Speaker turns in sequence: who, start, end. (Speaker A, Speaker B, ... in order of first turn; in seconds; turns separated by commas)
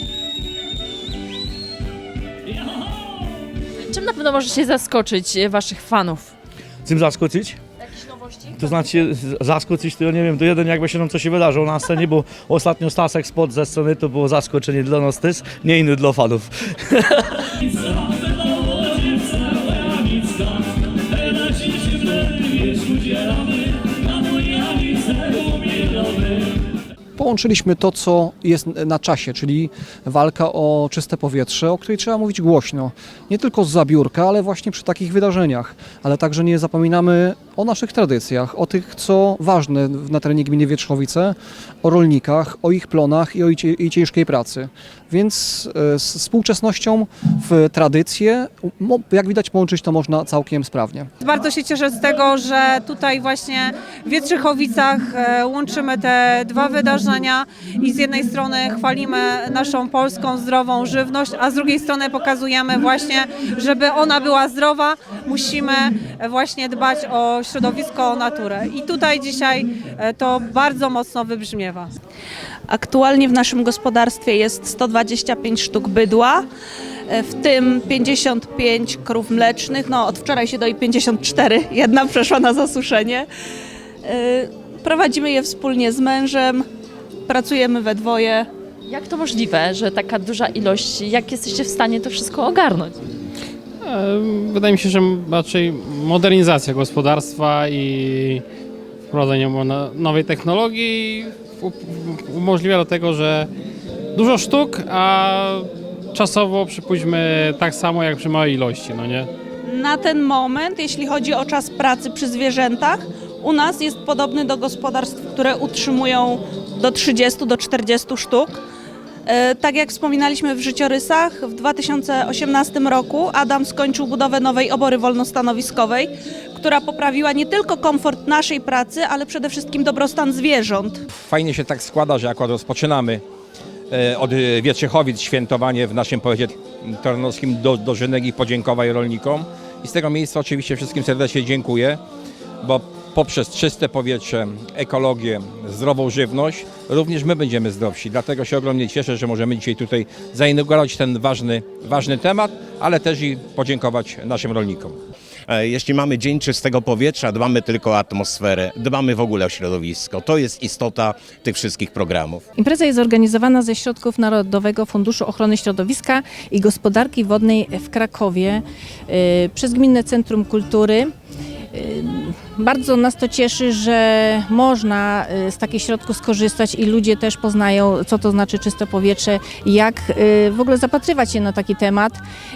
Speaker A: 2.5-3.2, Speaker B: 3.9-6.3, Speaker A: 6.9-7.6, Speaker A: 8.6-17.0, Speaker A: 18.5-20.6, Speaker A: 21.1-26.5, Speaker C: 27.2-51.1, Speaker D: 51.2-71.9, Speaker E: 72.7-76.4, Speaker E: 77.1-83.3, Speaker E: 84.1-86.7, Speaker E: 87.3-88.5, Speaker B: 88.9-93.0, Speaker F: 93.8-98.4, Speaker F: 99.1-103.5, Speaker F: 104.2-109.3, Speaker E: 109.7-118.6, Speaker E: 119.3-131.0, Speaker G: 131.1-133.2, Speaker G: 133.9-142.0, Speaker G: 142.6-155.0, Speaker H: 155.5-162.4, Speaker I: 162.6-171.1, Speaker I: 171.7-182.2